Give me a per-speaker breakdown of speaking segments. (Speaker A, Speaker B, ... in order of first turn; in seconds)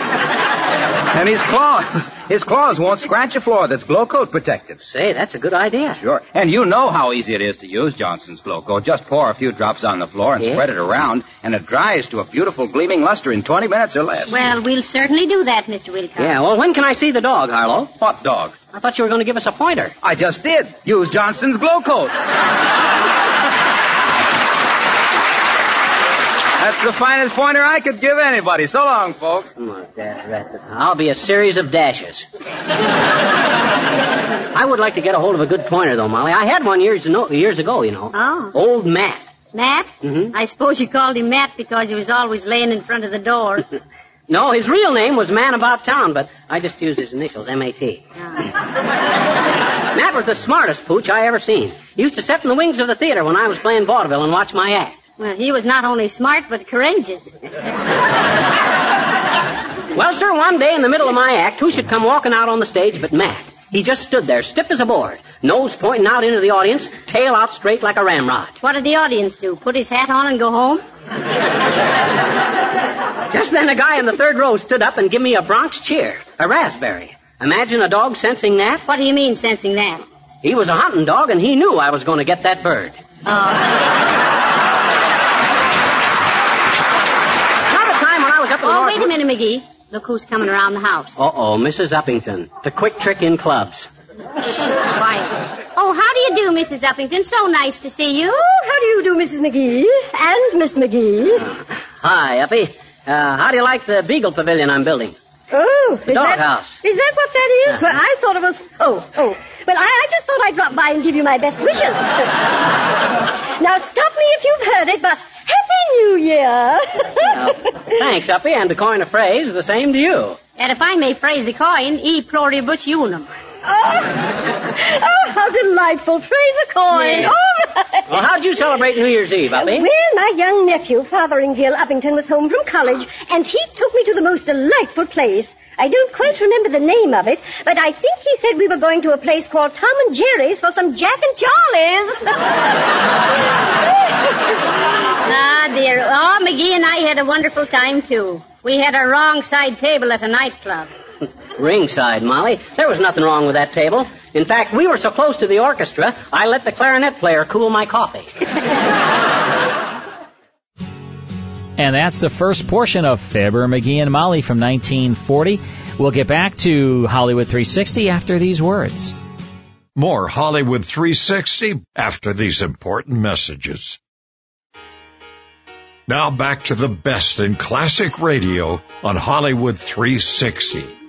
Speaker A: 1.1-4.8, 6.0-14.4, 18.0-18.6, 20.0-22.1, 26.6-29.5
Speaker B: 4.8-6.0, 10.4-10.7, 16.2-17.9, 18.7-19.9, 29.6-32.2, 34.5-39.2, 40.0-40.3, 44.3-48.0, 49.9-55.0, 59.9-68.5, 73.3-78.8, 80.4-83.0, 87.7-89.1, 91.2-93.9, 101.4-105.1, 106.1-106.8, 117.3-120.4, 126.9-127.3, 128.1-129.9, 151.6-158.3
Speaker C: 14.3-16.4, 38.1-38.5, 39.5-43.6, 48.2-48.5, 55.2-57.3, 68.6-70.8, 78.8-80.0, 83.2-83.7, 88.6-91.2, 94.9-98.4, 120.6-123.3, 145.2-150.9
Speaker D: 98.3-101.4, 105.5-112.3, 113.6-117.5, 123.6-128.1, 129.5-142.3
Speaker E: 161.8-169.1
Speaker F: 169.9-174.0, 176.1-180.9